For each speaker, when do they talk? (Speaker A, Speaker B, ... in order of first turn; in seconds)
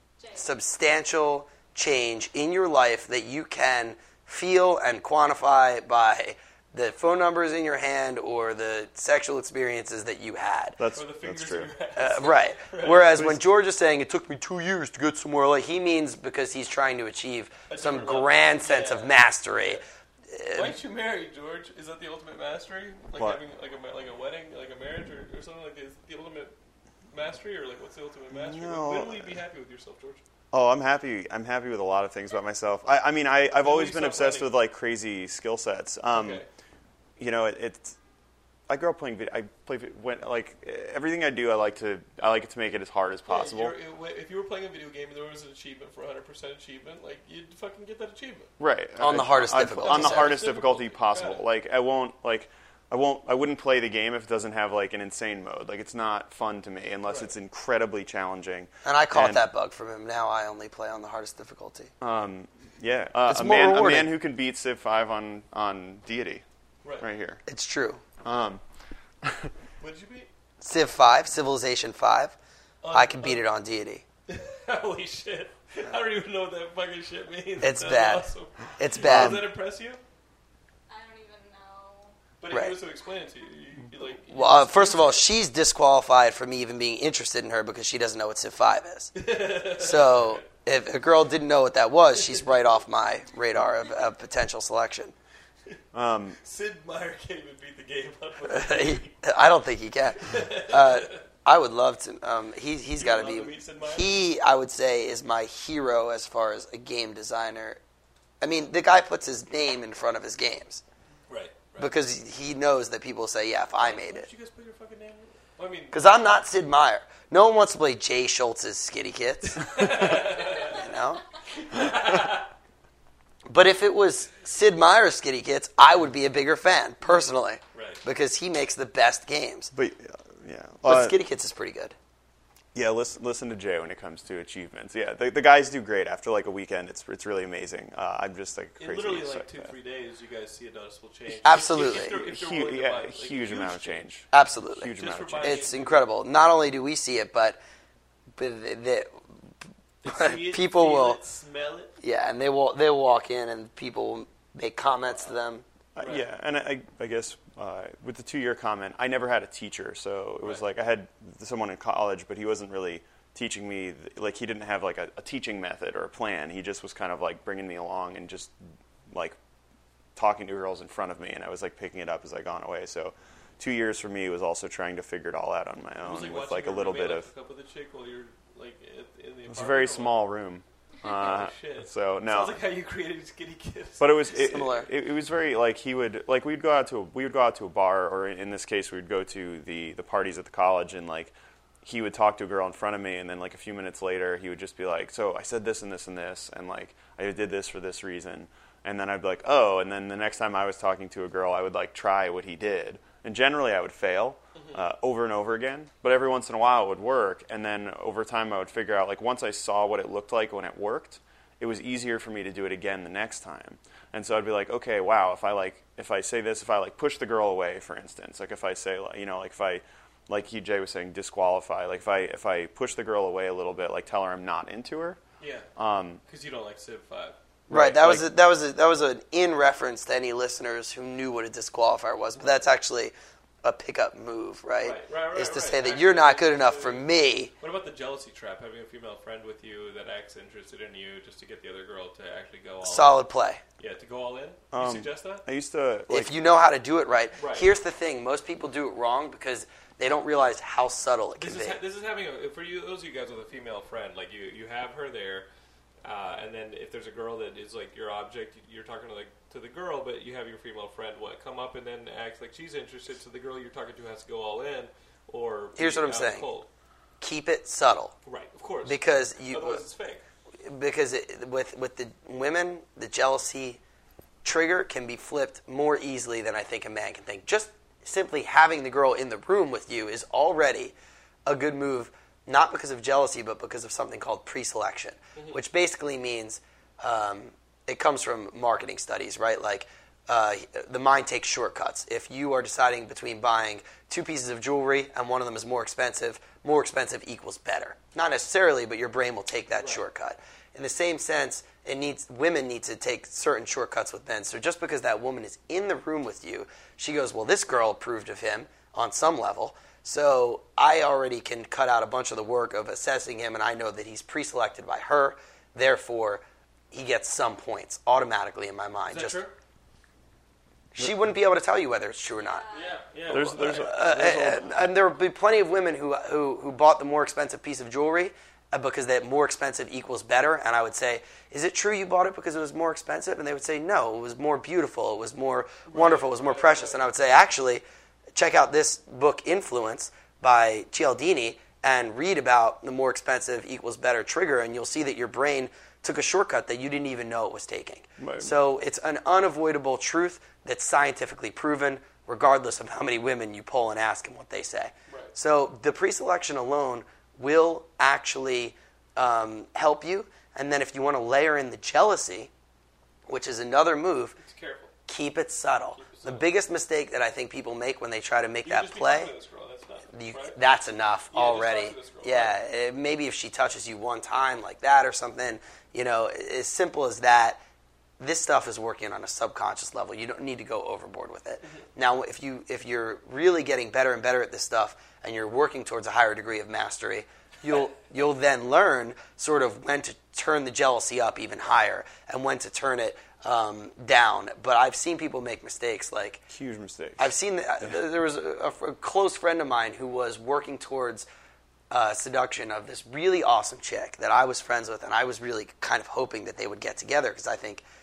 Speaker A: 0.2-0.5, 80.9-82.2, 322.4-323.0
Speaker B: 0.4-10.8, 12.0-20.8, 49.0-50.4, 58.9-61.9, 63.3-64.1, 67.5-68.0, 70.6-72.3, 72.9-74.0, 77.6-79.5, 82.5-82.8, 84.3-95.1, 98.5-107.8, 108.4-110.8, 111.8-114.3, 115.9-121.2, 123.5-129.7, 130.8-131.9, 141.4-142.2, 144.3-147.6, 148.4-149.1, 150.1-151.2, 152.0-155.6, 184.4-184.9, 227.7-233.1, 233.6-237.5, 242.8-243.6, 246.1-251.8, 265.8-266.5, 267.2-268.1, 268.9-269.8, 270.6-273.8, 274.4-280.9, 281.5-319.4, 321.0-322.7, 323.3-337.8, 338.4-362.5, 363.3-364.4, 365.1-369.3, 370.1-377.6, 378.2-396.4, 397.2-401.3, 401.9-407.8
Speaker C: 10.8-11.7, 13.2-13.4, 23.2-23.4, 28.3-29.4, 30.5-36.4, 37.2-38.0, 38.7-43.8, 48.6-59.4, 62.0-66.4, 67.0-67.4, 68.2-68.6, 69.2-69.5, 79.0-79.5, 95.9-96.4, 129.7-131.2, 132.8-139.7, 141.8-145.7, 156.0-168.6, 169.1-169.4, 170.2-177.3, 179.5-182.6, 184.0-225.2, 225.8-226.2, 227.7-228.3, 244.7-246.3, 323.3-324.9, 348.2-348.5, 396.5-397.9
Speaker D: 10.9-13.2, 17.7-19.8, 20.5-26.5, 27.1-30.2, 33.6-34.5, 36.1-36.5, 43.3-48.5, 49.8-51.4, 69.8-70.3, 72.8-73.4, 74.3-80.0, 82.4-85.2, 89.2-90.4, 96.4-99.2, 100.2-101.2, 103.0-104.2, 111.3-111.9, 113.8-116.0, 119.4-120.9, 121.5-122.5, 127.1-128.0, 138.8-144.1, 145.0-146.0, 150.0-151.9, 156.0-156.3, 176.0-180.2, 181.0-184.2, 204.6-204.8, 225.4-225.7, 226.2-227.4, 234.8-237.1, 237.6-243.2, 243.8-245.4, 247.4-247.7, 251.4-255.5, 256.0-266.7, 268.3-270.2, 285.4-285.6, 319.1-319.5, 322.7-324.0, 335.9-337.0, 355.1-355.3, 364.4-364.9, 366.0-366.5, 368.6-370.6, 371.3-372.6